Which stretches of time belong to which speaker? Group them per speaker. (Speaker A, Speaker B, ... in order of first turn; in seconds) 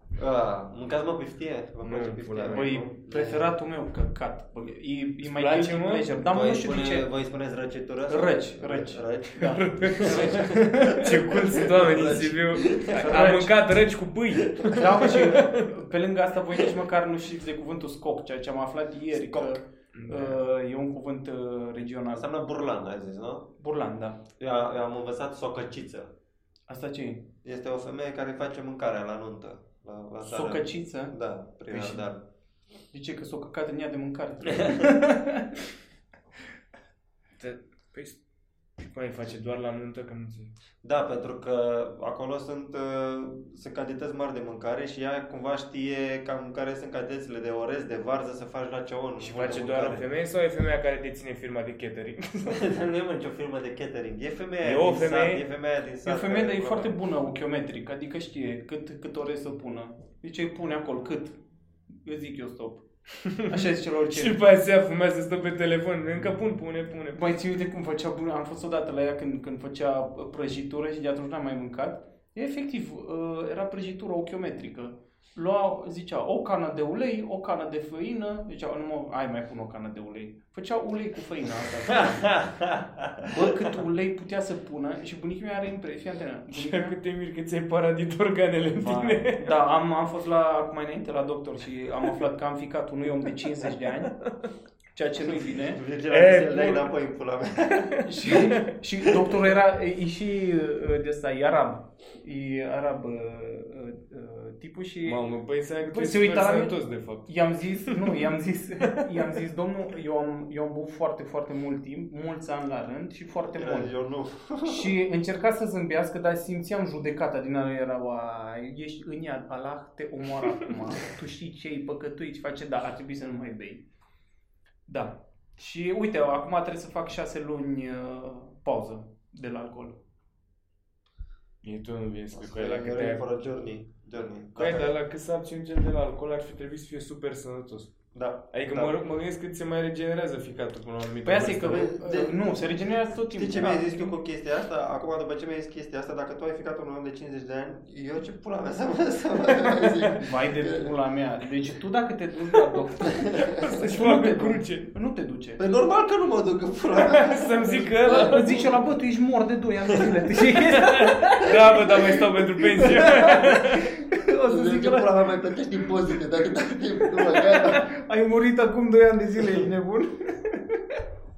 Speaker A: 0.2-3.4, 6.3-13.0, 19.1-19.6, 22.1-23.5, 24.4-26.1, 27.4-32.2, 40.8-50.0, 52.5-56.9, 82.2-83.3, 95.2-97.9, 113.5-114.9, 132.3-134.9, 138.1-139.0, 141.6-142.5, 143.3-150.9, 155.6-158.7, 164.4-167.9
Speaker B: 1.8-2.7, 5.2-6.1, 9.4-15.7, 19.9-20.4, 31.7-32.0, 37.4-38.2, 38.8-40.5, 49.2-52.6, 54.6-55.4, 63.2-67.2, 86.5-89.5, 96.1-96.9, 97.8-98.6, 105.0-108.1, 131.6-133.2, 134.6-137.9, 138.5-141.9, 149.7-150.0, 153.3-154.9, 156.9-158.7, 160.5-163.9
Speaker C: 2.5-7.1, 8.1-12.2, 12.8-13.6, 14.6-22.3, 23.6-24.2, 26.7-27.3, 30.2-31.1, 32.9-35.6, 56.0-62.9, 63.4-64.4, 67.1-82.4, 83.2-87.0, 88.8-94.2, 94.9-95.8, 98.0-105.2, 105.8-113.9, 114.6-123.8, 124.9-130.0, 141.2-144.1, 150.2-155.6, 158.1-165.6, 167.0-171.0